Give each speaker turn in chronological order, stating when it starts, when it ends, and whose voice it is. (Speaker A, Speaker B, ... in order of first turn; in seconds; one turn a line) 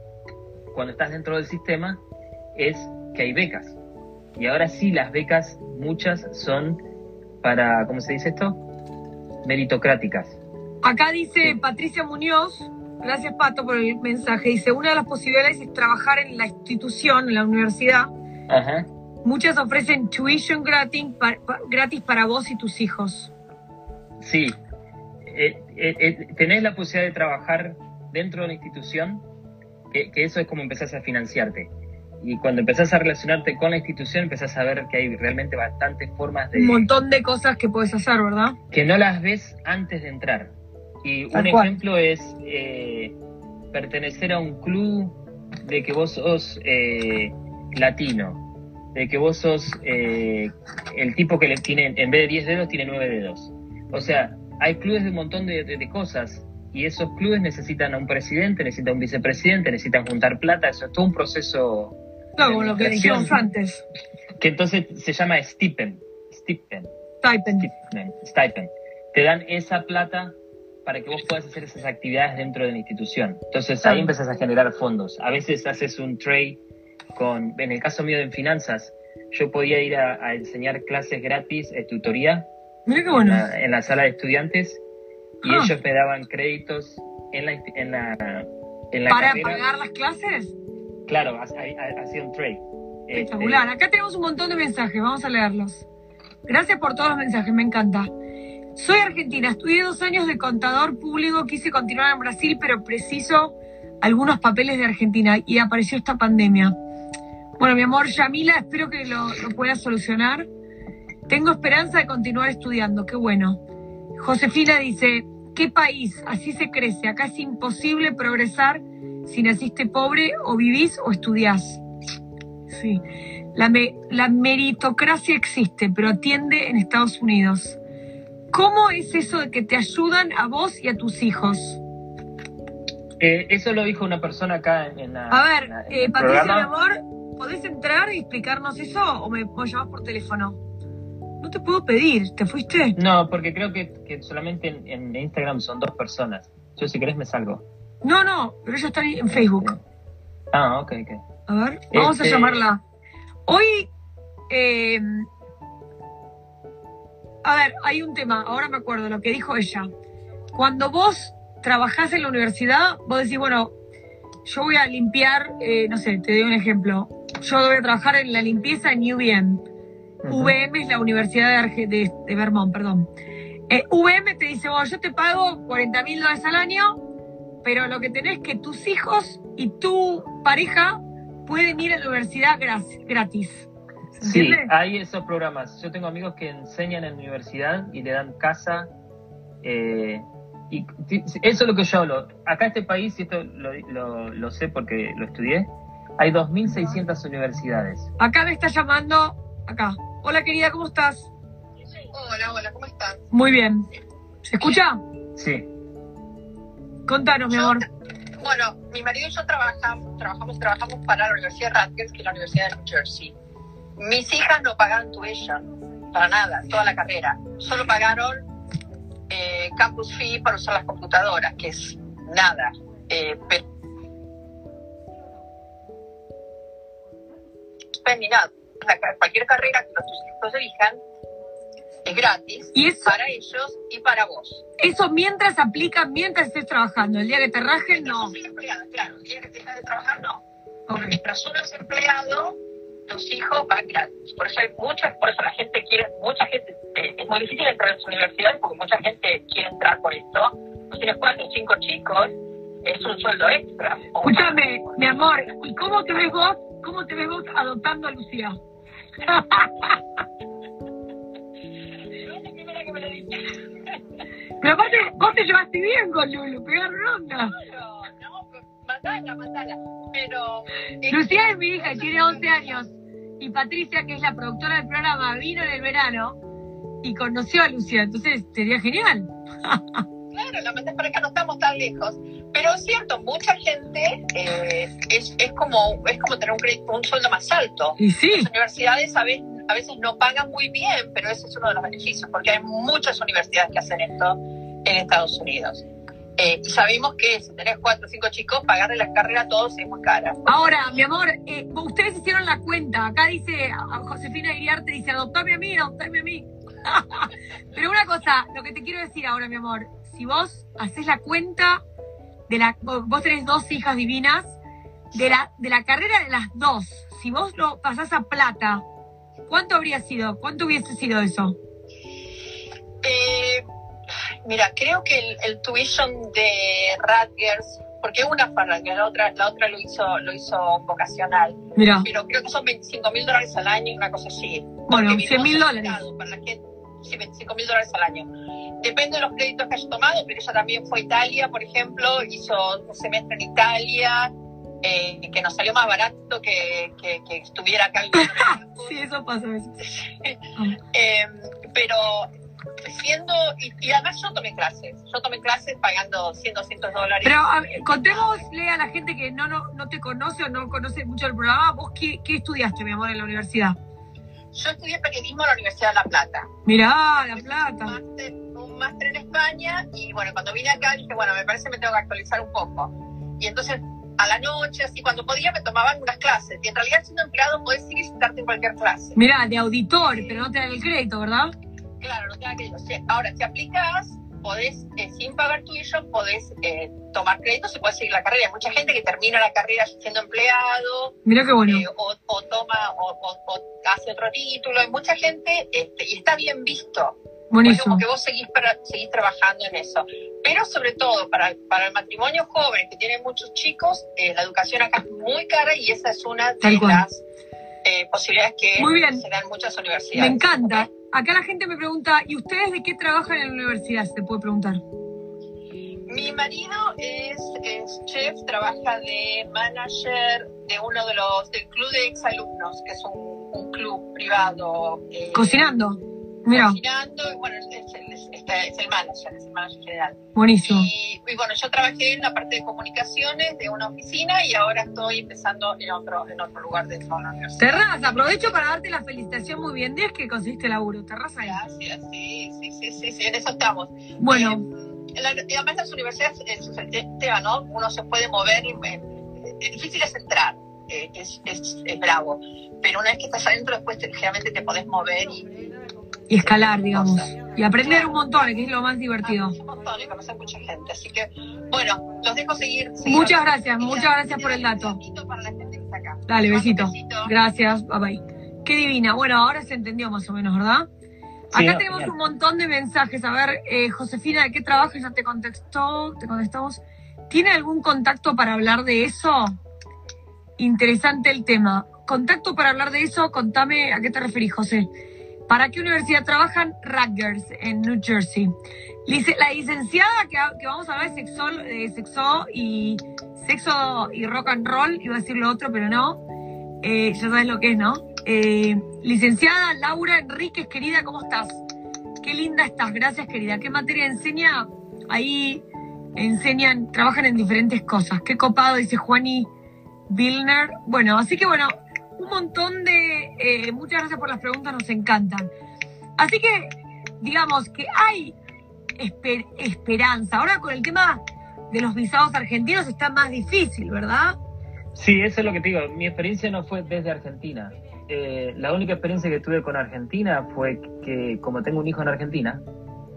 Speaker A: 0.7-2.0
Speaker A: 2.6-3.8
Speaker A: 4.4-6.8
Speaker A: 7.4-8.6
Speaker A: 9.4-10.4
Speaker B: 10.8-18.1
Speaker A: 18.5-18.9
Speaker B: 19.2-23.3
Speaker A: 24.2-24.6
Speaker A: 25.3-29.2
Speaker A: 29.9-36.9
Speaker B: 36.5-38.6
Speaker A: 38.7-43.1
Speaker B: 41.3-41.7
Speaker A: 43.7-63.5
Speaker B: 62.4-63.8
Speaker A: 64.4-66.9
Speaker B: 67.2-67.7
Speaker A: 67.5-76.6
Speaker A: 77.2-82.5
Speaker B: 82.9-83.5
Speaker A: 83.1-84.8
Speaker B: 85.4-85.7
Speaker A: 85.4-89.7
Speaker B: 89.1-90.5
Speaker A: 91.1-93.6
Speaker B: 93.1-95.8
Speaker B: 96.5-98.1
Speaker B: 98.8-106.8
Speaker B: 107.6-110.5
Speaker B: 111.3-113.6
Speaker B: 114.2-121.8
Speaker B: 122.7-123.0
Speaker B: 123.6-127.8
Speaker B: 128.5-131.8
Speaker A: 133.2-136.7
Speaker B: 135.3-140.6
Speaker B: 141.4-143.0
Speaker A: 143.0-147.6
Speaker B: 148.0-149.7
Speaker A: 149.3-149.8
Speaker A: 150.5-151.2
Speaker B: 151.5-152.8
Speaker A: 151.9-152.6
Speaker B: 153.5-153.9
Speaker B: 154.5-155.3
Speaker B: 157.4-159.9
Speaker B: 160.5-163.7
Speaker B: 164.5-169.7
Speaker A: 170.2-170.6
Speaker B: 170.3-173.1
Speaker B: 173.7-177.0
Speaker B: 177.6-184.7
Speaker A: 184.2-188.9
Speaker A: 189.6-198.1
Speaker B: 198.2-201.3
Speaker C: 202.1-203.3
Speaker B: 203.3-203.8
Speaker B: 204.4-205.0
Speaker A: 205.4-205.7
Speaker B: 207.1-207.8
Speaker C: 207.5-207.8
Speaker C: 208.4-213.3
Speaker C: 214.0-218.4
Speaker C: 219.3-223.6
Speaker C: 228.0-231.0
Speaker C: 232.1-234.6
Speaker B: 232.7-233.2
Speaker B: 234.8-238.3
Speaker C: 237.9-240.4
Speaker B: 240.9-241.2
Speaker C: 240.9-242.6
Speaker C: 243.1-252.3
Speaker C: 252.8-255.3
Speaker B: 254.2-258.6
Speaker B: 259.3-259.9
Speaker C: 262.2-263.5
Speaker B: 264.6-267.5
Speaker C: 267.6-272.9
Speaker B: 271.1-276.4
Speaker B: 277.0-280.0
Speaker C: 280.3-295.9
Speaker B: 288.0-288.5
Speaker C: 296.4-300.9
Speaker B: 300.5-311.8
Speaker B: 312.5-314.6
Speaker B: 315.1-318.8
Speaker B: 319.5-321.6
Speaker C: 323.0-323.6
Speaker C: 324.4-338.3
Speaker B: 331.8-332.1
Speaker B: 334.9-336.0
Speaker C: 338.8-344.3
Speaker C: 344.8-349.0
Speaker B: 348.1-349.9
Speaker C: 349.9-350.4
Speaker C: 350.9-352.3
Speaker C: 352.8-358.4
Speaker B: 357.2-363.8
Speaker C: 364.5-366.5
Speaker B: 366.7-367.9
Speaker C: 367.3-379.2
Speaker B: 379.2-381.5
Speaker C: 382.0-407.2
Speaker B: 391.3-391.8
Speaker B: 397.5-398.0
Speaker B: 406.6-407.1
Speaker C: 407.8-410.9
Speaker B: 408.8-409.2
Speaker B: 410.2-414.8
Speaker C: 416.1-425.7
Speaker B: 425.3-426.8
Speaker C: 426.5-438.6
Speaker B: 430.4-430.9
Speaker B: 437.6-441.6
Speaker C: 441.4-444.6
Speaker B: 444.2-444.6
Speaker C: 445.1-455.6
Speaker B: 456.3-459.6
Speaker C: 456.4-458.4
Speaker C: 459.2-467.3
Speaker B: 463.1-465.0
Speaker B: 466.3-470.9
Speaker A: 471.5-472.1
Speaker B: 471.5-479.6
Speaker B: 480.6-484.9
Speaker B: 485.5-488.5
Speaker B: 489.1-496.2
Speaker B: 496.8-501.6
Speaker B: 502.2-505.6
Speaker B: 506.2-509.5
Speaker B: 510.1-515.5
Speaker B: 516.2-518.4
Speaker B: 519.0-524.4
Speaker A: 525.0-532.6